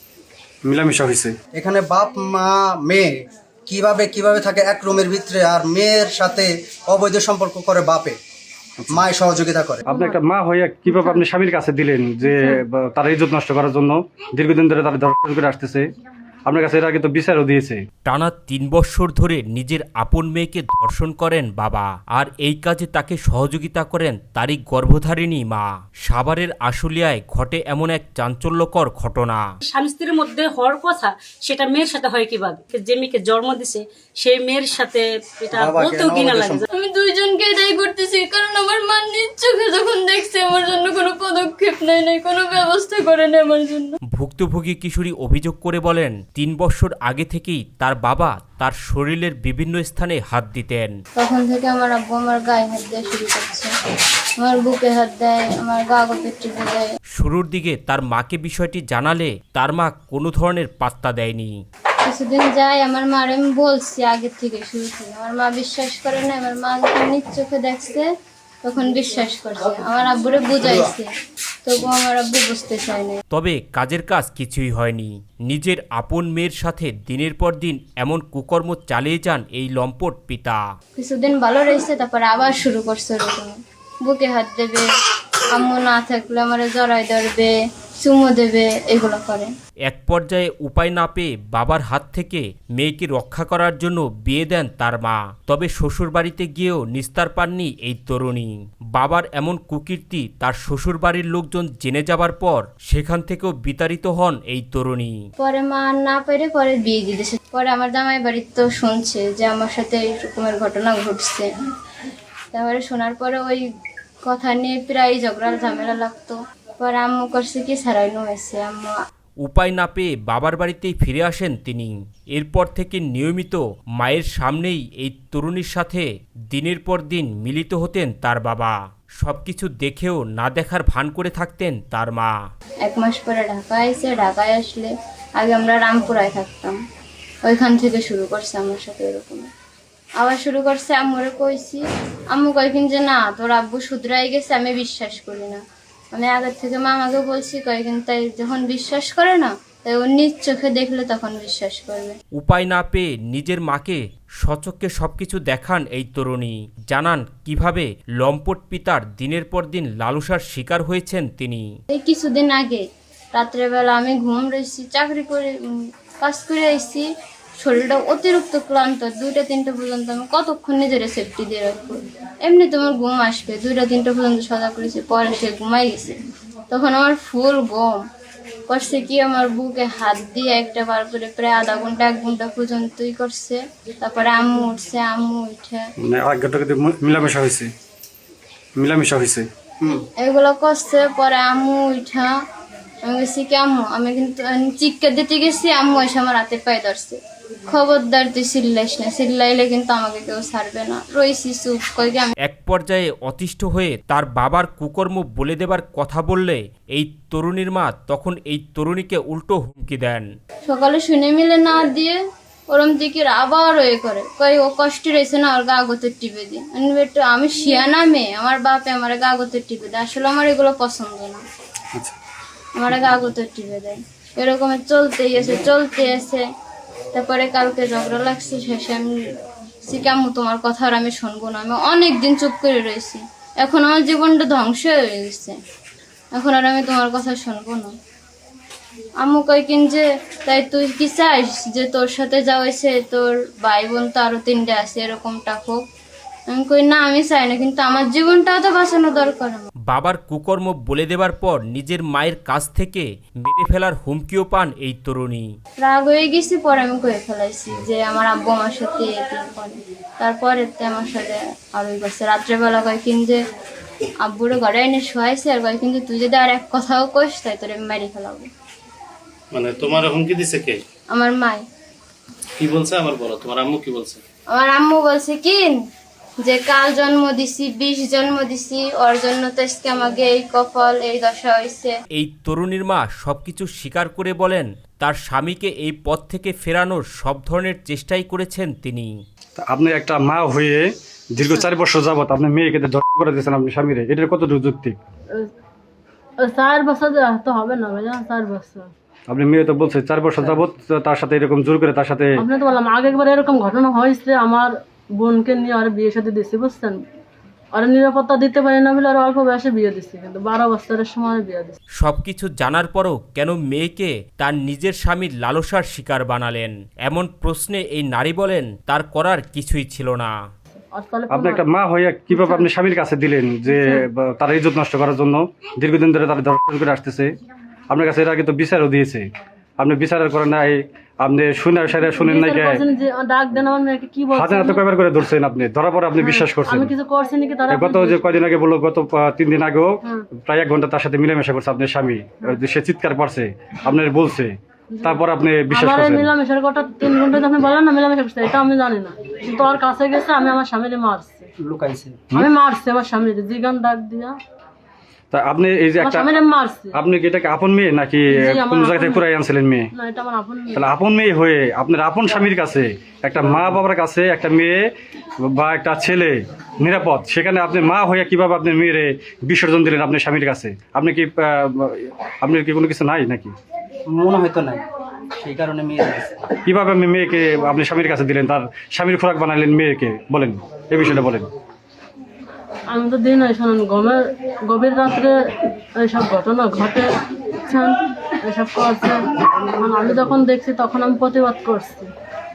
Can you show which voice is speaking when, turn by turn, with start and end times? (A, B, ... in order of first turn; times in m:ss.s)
0:00.6-0:01.4 A
0:01.5-0:03.1 B
0:03.7-0:08.2 B
0:08.8-0:09.1 A
0:08.9-0:09.8 B
0:09.8-0:10.2 C
0:09.9-0:15.9 A
0:10.9-0:11.2 C
0:12.2-0:12.6 C
0:16.5-0:17.8 A
0:18.0-0:29.4 D
0:29.6-0:36.6 E
0:35.5-0:36.6 B
0:36.7-0:44.0 F
0:44.2-0:50.9 D
0:51.2-0:53.7 F
0:54.4-0:56.9 F
0:57.2-1:01.5 D
1:02.0-1:08.0 F
1:08.6-1:11.1 F
1:11.6-1:13.2 F
1:13.3-1:20.6 D
1:21.0-1:24.9 F
1:25.5-1:29.5 F
1:29.9-1:45.1 D
1:45.4-1:51.5 F
1:52.5-1:53.6 F
1:54.3-1:58.9 F
1:59.4-2:12.3 D
2:12.8-2:16.8 F
2:17.4-2:19.5 F
2:20.2-2:25.6 F
2:26.1-2:32.2 F
2:32.4-2:41.6 D
2:41.9-2:42.8 F
2:43.3-2:47.0 F
2:47.6-2:56.2 F
2:56.7-2:58.0 F
2:58.7-3:05.8 F
3:06.0-3:07.7 A
3:08.8-3:09.5 A
3:10.2-3:12.3 F
3:13.0-3:22.3 F
3:22.4-3:30.2 D
3:30.7-3:32.2 F
3:32.7-3:41.4 F
3:42.8-3:46.4 F
3:47.1-3:49.1 F
3:49.8-3:55.6 F
3:56.3-3:57.9 F
3:59.2-4:05.8 F
4:06.5-4:09.7 F
4:09.9-4:15.4 D
4:15.8-4:23.4 F
4:24.2-4:28.5 F
4:29.5-4:30.8 G
4:31.1-4:31.6 F
4:32.6-4:34.2 G
4:34.5-4:35.8 F
4:36.4-4:41.9 F
4:42.1-4:49.1 D
4:49.6-4:55.0 A
4:56.4-4:58.9 C
4:59.3-5:02.4 A
5:02.4-5:07.0 C
5:07.7-5:11.8 C
5:12.0-5:20.3 D
5:20.9-5:21.6 C
5:21.3-5:27.3 A
5:22.3-5:22.7 C
5:23.6-5:24.0 C
5:27.9-5:32.8 A
5:32.2-5:34.8 C
5:34.3-5:36.9 A
5:36.2-5:38.3 C
5:37.7-5:46.3 A
5:44.9-5:51.5 C
5:51.6-5:52.3 B
5:52.3-5:54.4 C
5:55.3-5:56.3 A
5:56.0-5:57.0 C
5:56.9-5:59.9 A
5:58.3-5:59.2 C
5:59.9-6:00.9 C
6:00.7-6:04.9 A
6:05.4-6:13.6 A
6:14.1-6:14.8 B
6:15.4-6:16.5 B
6:16.6-6:21.5 A
6:22.9-6:27.1 C
6:27.6-6:32.1 C